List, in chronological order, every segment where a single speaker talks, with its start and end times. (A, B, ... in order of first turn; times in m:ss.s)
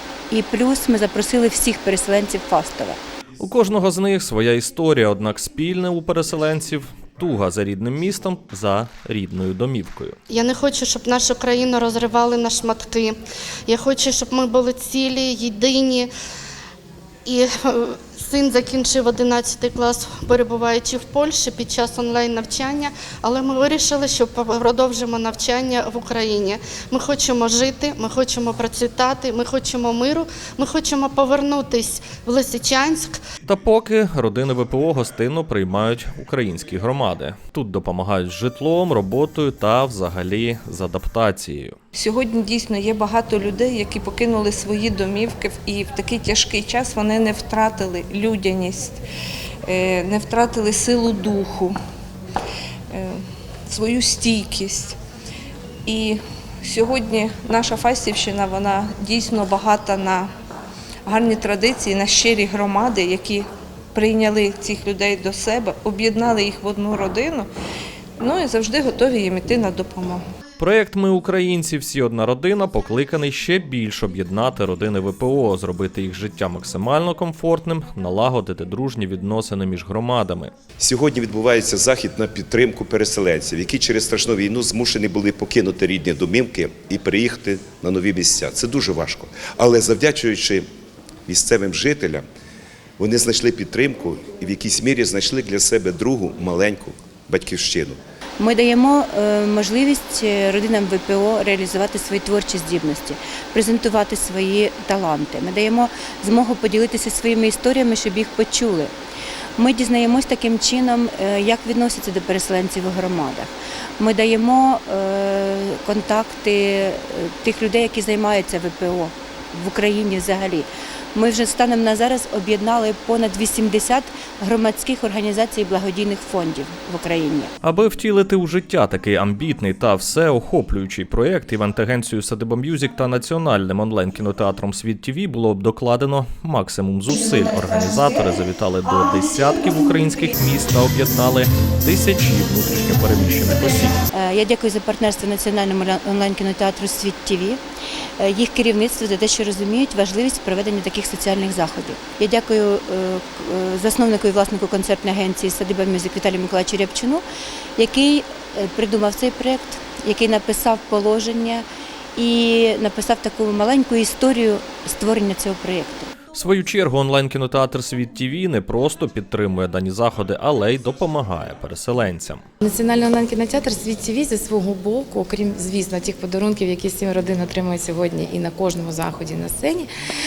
0:00.3-0:03.0 A
0:03.4-0:10.2 B
0:10.3-0:13.2 C
0:13.7-0:16.1 C
0:17.3-0:33.2 C
0:33.5-0:41.8 B
0:42.0-0:49.0 D
0:49.6-0:51.8 D
0:52.9-0:55.0 D
0:55.9-1:00.3 D
1:01.1-1:07.5 D
1:08.2-1:10.2 D
1:10.6-1:20.5 B
1:20.8-1:30.6 E
1:31.3-1:32.2 E
1:33.0-1:38.0 E
1:38.4-1:48.9 A
1:49.6-2:07.5 A
2:07.6-2:24.0 B
2:24.1-2:27.6 A
2:28.2-2:37.2 A
2:37.8-2:46.1 A
2:46.3-2:52.4 B
2:52.6-2:59.9 F